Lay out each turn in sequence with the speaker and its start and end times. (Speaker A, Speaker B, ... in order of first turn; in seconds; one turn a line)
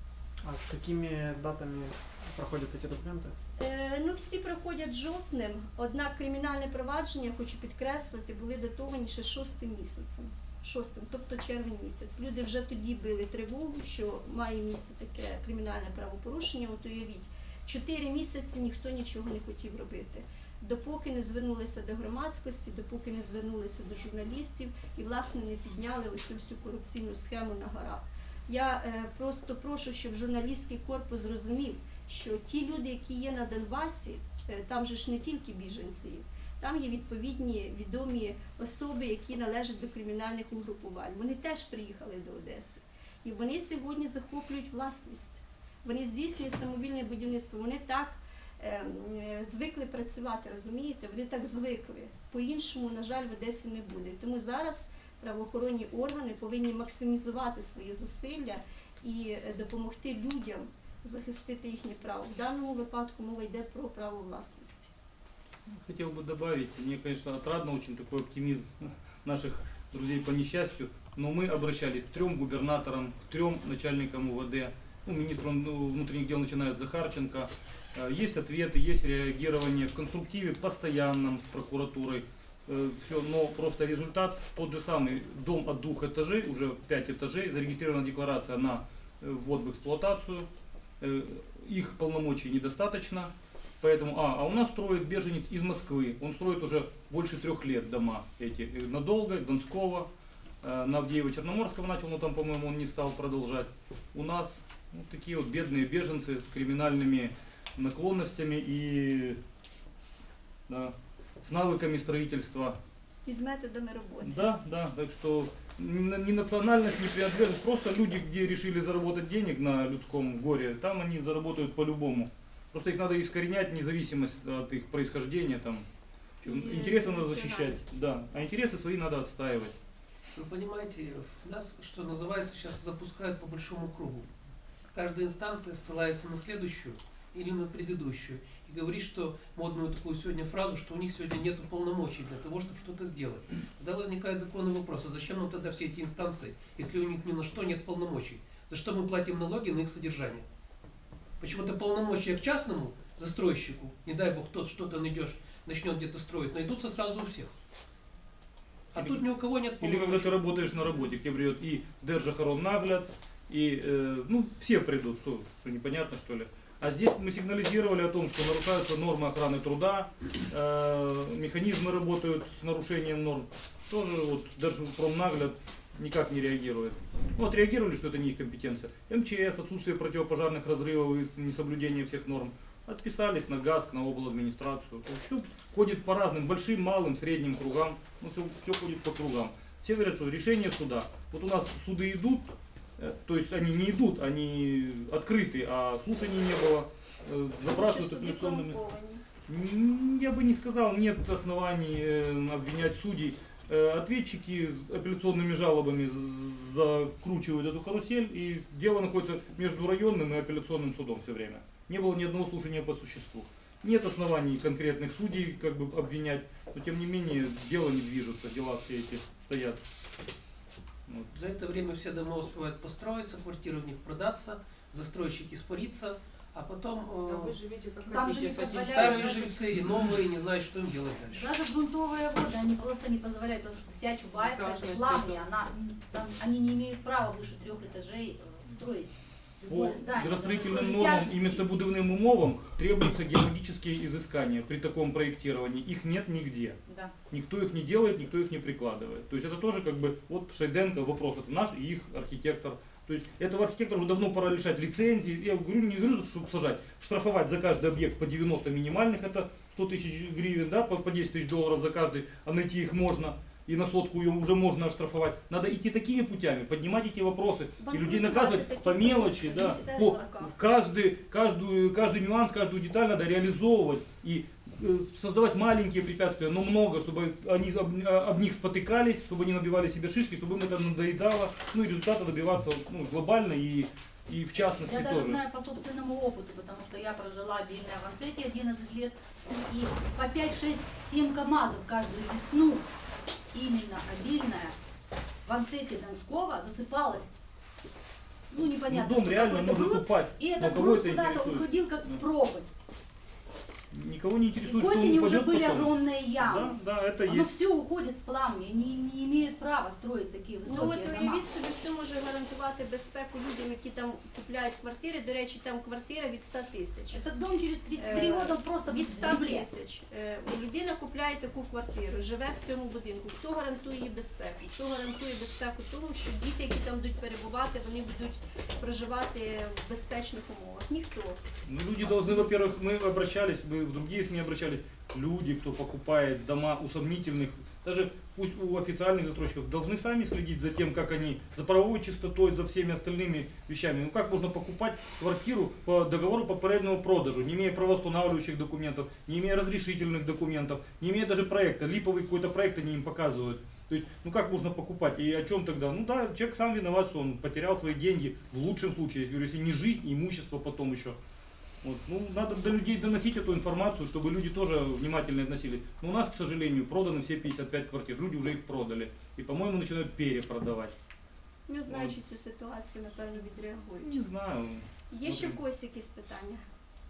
Speaker A: 0.4-3.3
Speaker B: 3.6-64.9
Speaker C: 65.7-90.5
Speaker C: 91.0-100.1
Speaker C: 100.6-109.4
Speaker C: 110.7-112.8
Speaker B: 113.2-114.5
Speaker C: 114.2-125.8
Speaker C: 126.4-129.7
Speaker B: 126.4-127.9
Speaker D: 130.3-134.3
Speaker D: 134.9-150.4
Speaker D: 151.4-157.5
Speaker D: 158.9-160.4
Speaker C: 158.9-159.2
Speaker C: 159.8-198.8
Speaker B: 197.7-199.2
Speaker C: 199.5-219.8
Speaker C: 221.1-221.3
Speaker D: 221.3-227.6
Speaker E: 227.2-229.4
Speaker F: 228.1-229.5
Speaker D: 228.3-231.5
Speaker F: 231.3-241.6
Speaker E: 234.3-235.4
Speaker C: 239.7-246.8
Speaker F: 246.8-247.1
Speaker C: 247.3-285.4
Speaker B: 267.8-270.5
Speaker F: 284.6-292.9
Speaker F: 293.5-294.8
Speaker F: 295.4-297.3
Speaker F: 298.5-302.8
Speaker C: 298.9-302.2
Speaker C: 303.9-307.5
Speaker F: 304.6-311.4
Speaker B: 310.6-317.2
Speaker F: 317.1-319.7
Speaker B: 318.0-331.4
Speaker C: 331.7-361.2
Speaker B: 332.0-332.4
Speaker C: 361.8-370.9
Speaker B: 371.7-374.2
Speaker C: 374.0-375.6
Speaker B: 375.1-376.6